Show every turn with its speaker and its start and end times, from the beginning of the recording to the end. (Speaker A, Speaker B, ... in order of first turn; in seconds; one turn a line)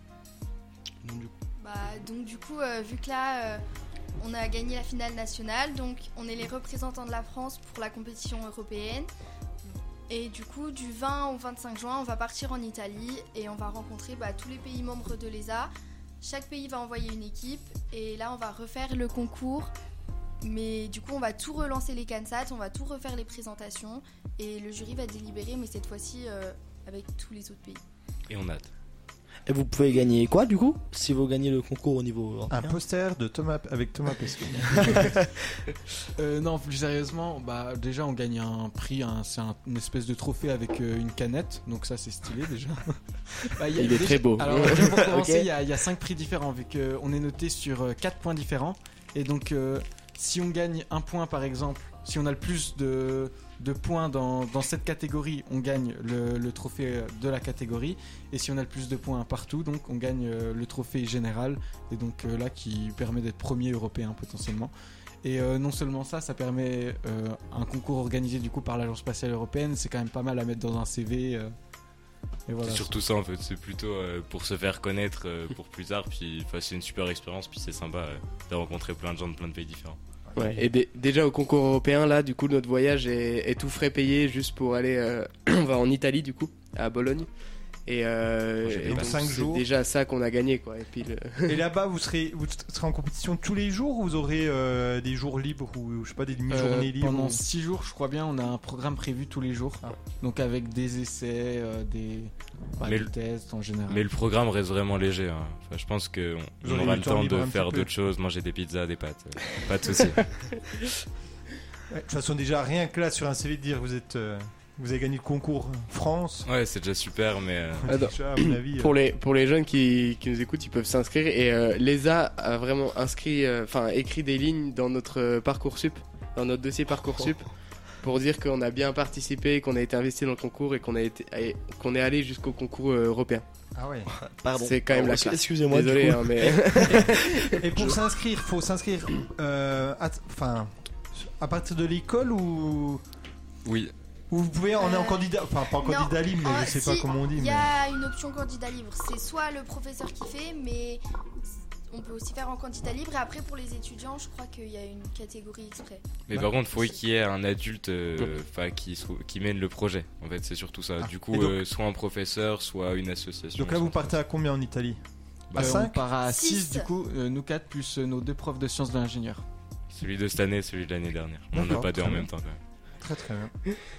Speaker A: 1.0-1.3
Speaker B: 1.6-3.6
Speaker B: 4.2-9.1
Speaker B: 10.1-15.7
Speaker B: 16.2-19.7
Speaker B: 20.4-27.8
Speaker C: 28.3-28.7
Speaker A: 29.5-32.8
Speaker D: 32.5-35.1
Speaker A: 34.8-35.3
Speaker E: 36.2-64.7
Speaker F: 43.7-45.0
Speaker A: 44.6-45.5
Speaker E: 65.2-71.5
Speaker E: 72.5-72.9
Speaker C: 72.6-80.0
Speaker D: 80.3-80.6
Speaker F: 80.3-87.3
Speaker F: 87.8-91.6
Speaker C: 88.7-89.2
Speaker D: 88.8-89.6
Speaker D: 91.5-97.4
Speaker E: 96.5-104.0
Speaker C: 102.8-103.1
Speaker C: 103.9-110.2
Speaker D: 106.6-107.9
Speaker D: 111.9-116.5
Speaker C: 116.4-118.0
Speaker D: 117.8-118.9
Speaker F: 117.9-127.5
Speaker F: 128.0-133.4
Speaker D: 133.7-134.1
Speaker A: 134.2-137.1
Speaker F: 134.6-137.9
Speaker D: 136.9-143.0
Speaker C: 143.6-143.9
Speaker D: 144.3-147.7
Speaker B: 144.8-151.0
Speaker B: 151.9-156.2
Speaker C: 156.3-164.1
Speaker D: 161.0-161.6
Speaker D: 163.6-165.0
Speaker C: 165.5-165.8
Speaker D: 165.5-166.0
Speaker E: 165.6-169.4
Speaker B: 166.2-166.9
Speaker C: 169.9-172.6
Speaker D: 171.5-172.3
Speaker D: 173.0-173.5